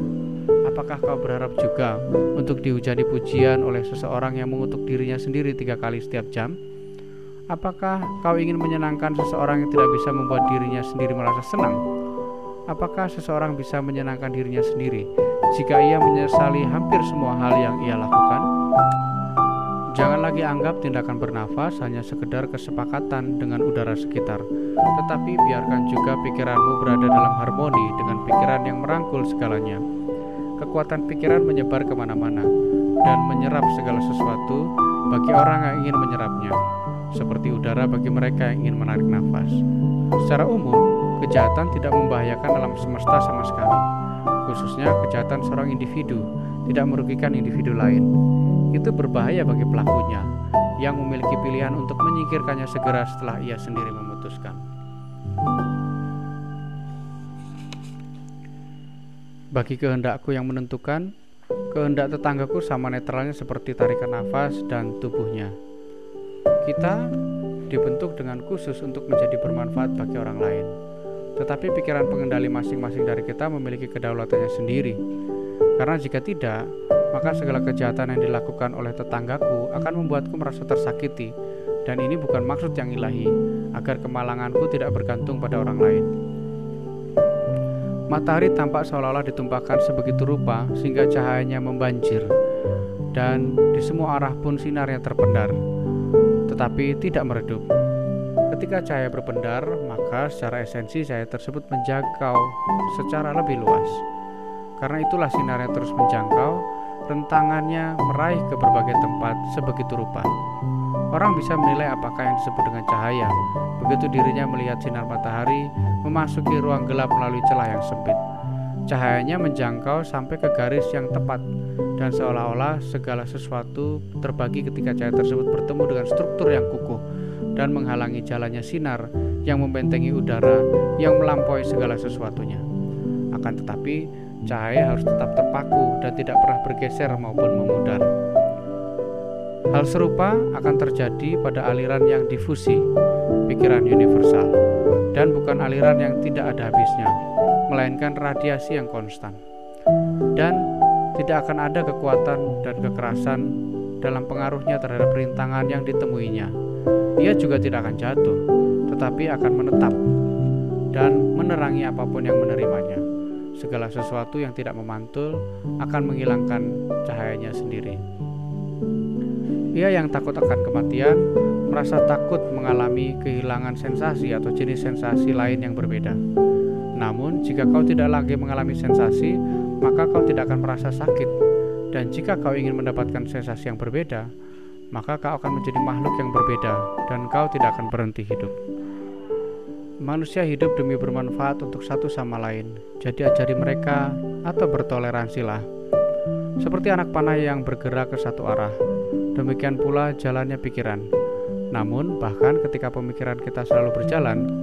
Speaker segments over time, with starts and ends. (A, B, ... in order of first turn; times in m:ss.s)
0:00.7-0:06.6 A
0:07.5-0:11.8 A
0:12.7-0:18.5 A
0:19.9-0:24.4 A
0:25.0-0:29.8 A
0:30.6-0:32.5 A
0:33.0-0:36.6 A
0:37.1-0:39.6 A
0:40.2-0:43.9 A
0:44.4-0:48.1 A
0:48.7-0:50.3 A
0:50.8-0:54.6 A
0:59.5-1:01.1 A
1:01.7-1:05.5 A
1:06.6-1:07.1 A
1:07.7-1:10.7 A
1:11.4-1:15.0 A
1:15.8-1:21.3 A
1:21.8-1:26.1 A
1:28.1-1:32.3 A
1:33.1-1:35.6 A
1:36.5-1:37.6 A
1:38.5-1:44.0 A
1:44.8-1:50.3 A
1:51.1-1:58.2 A
1:58.9-2:01.4 A
2:02.0-2:07.0 A
2:07.6-2:12.6 A
2:13.3-2:18.1 A
2:19.7-2:22.8 A
2:23.5-2:24.6 A
2:25.1-2:27.1 A
2:27.7-2:29.4 A
2:31.2-2:33.5 A
2:34.0-2:36.5 A
2:37.2-2:40.0 A
2:40.9-2:43.0 A
2:43.6-2:48.0 A
2:49.8-2:56.2 A
2:57.0-3:01.3 A
3:01.9-3:04.3 A
3:04.9-3:08.6 A
3:10.0-3:15.6 A
3:16.6-3:18.7 A
3:19.4-3:21.0 A
3:21.7-3:24.4 A